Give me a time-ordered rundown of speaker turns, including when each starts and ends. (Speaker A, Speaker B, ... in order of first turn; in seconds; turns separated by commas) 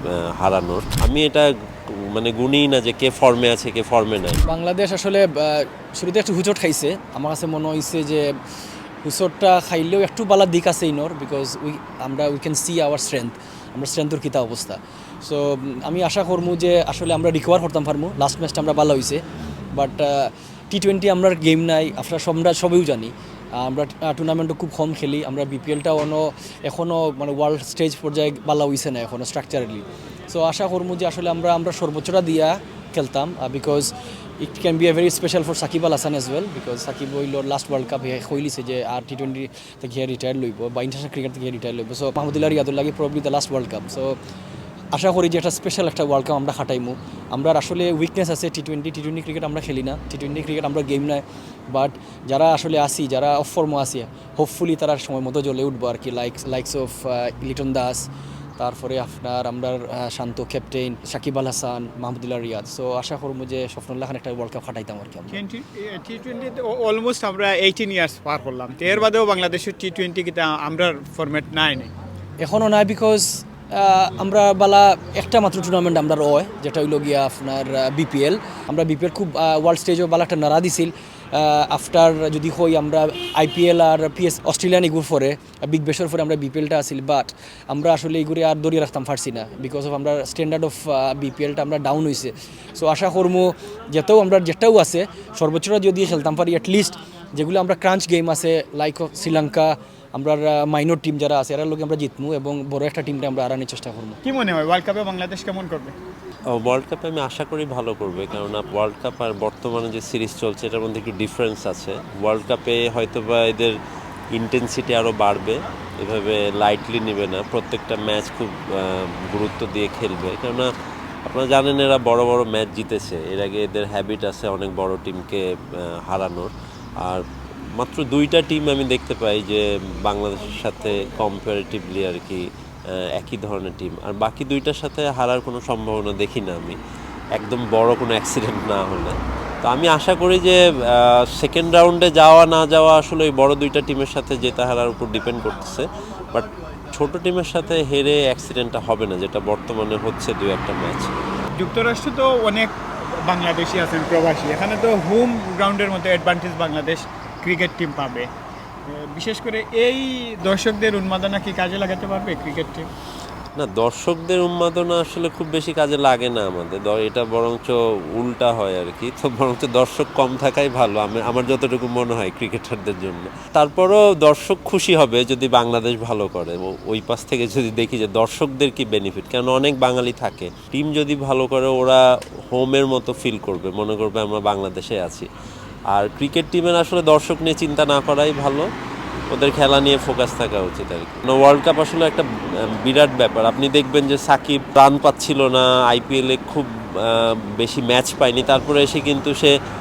Speaker A: 0.4-4.4, Speaker B: 4.4-8.3, Speaker B: 9.0-19.2, Speaker B: 19.7-44.2, Speaker B: 44.9-65.4, Speaker C: 65.3-71.9, Speaker B: 72.4-104.2, Speaker C: 104.2-106.0, Speaker A: 106.5-113.8, Speaker A: 114.3-120.7, Speaker A: 121.2-136.8, Speaker A: 137.4-151.1, Speaker C: 151.6-158.3, Speaker C: 158.9-162.9, Speaker A: 163.6-185.3, Speaker A: 185.9-188.7, Speaker A: 189.3-199.5